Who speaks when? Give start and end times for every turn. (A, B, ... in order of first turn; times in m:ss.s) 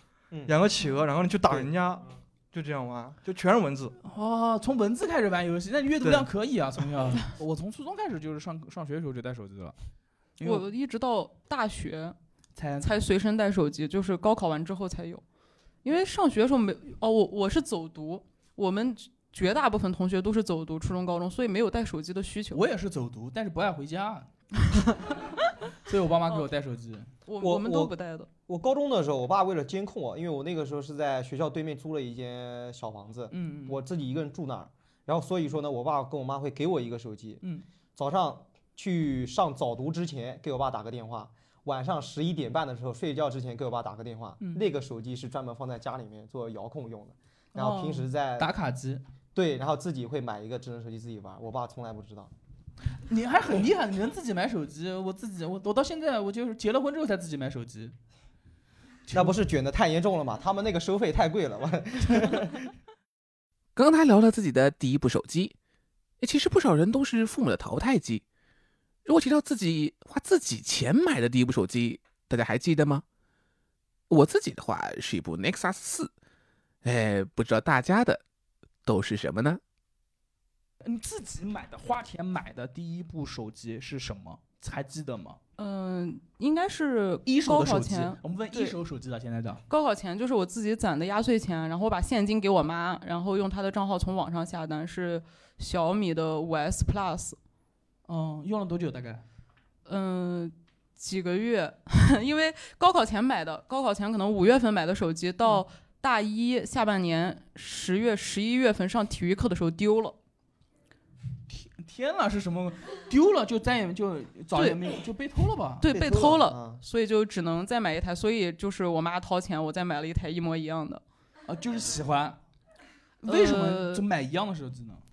0:00.5-0:04.0 A
0:04.0-0:09.8 B
0:06.0-0:06.3 A
0:10.4-0:10.6 B
0:10.4-0:12.2 C
0:12.6-0:12.9 B
0:12.8-0:15.2 C
0:15.8-0:22.6 C
0:22.5-0:24.3 B
0:25.9-0:27.1 B
0:27.3-0:28.3 C
0:27.4-0:27.9 D
0:28.5-0:37.4 D
0:33.3-0:33.8 B
0:38.0-0:48.5 D
0:44.4-0:44.6 B
0:47.6-0:49.0 B
0:49.3-0:52.3 D
0:53.1-0:58.0 B
0:59.1-0:59.4 B
0:59.1-1:02.7 D
1:03.8-1:05.5 E
1:06.2-1:08.2 E
1:09.1-1:13.0 E
1:14.1-1:16.1 E
1:16.8-1:18.2 E
1:18.9-1:19.6 E
1:20.8-1:25.4 B
1:25.6-1:28.8 C
1:27.2-1:29.6 B
1:29.7-1:37.4 C
1:38.1-1:39.2 B
1:39.9-1:50.2 C
1:51.5-1:55.9 B
1:54.5-1:55.0 C
1:55.8-2:01.0 C
1:55.9-1:56.8 D
2:01.5-2:02.4 B
2:03.2-2:04.0 C
2:03.2-2:05.0 B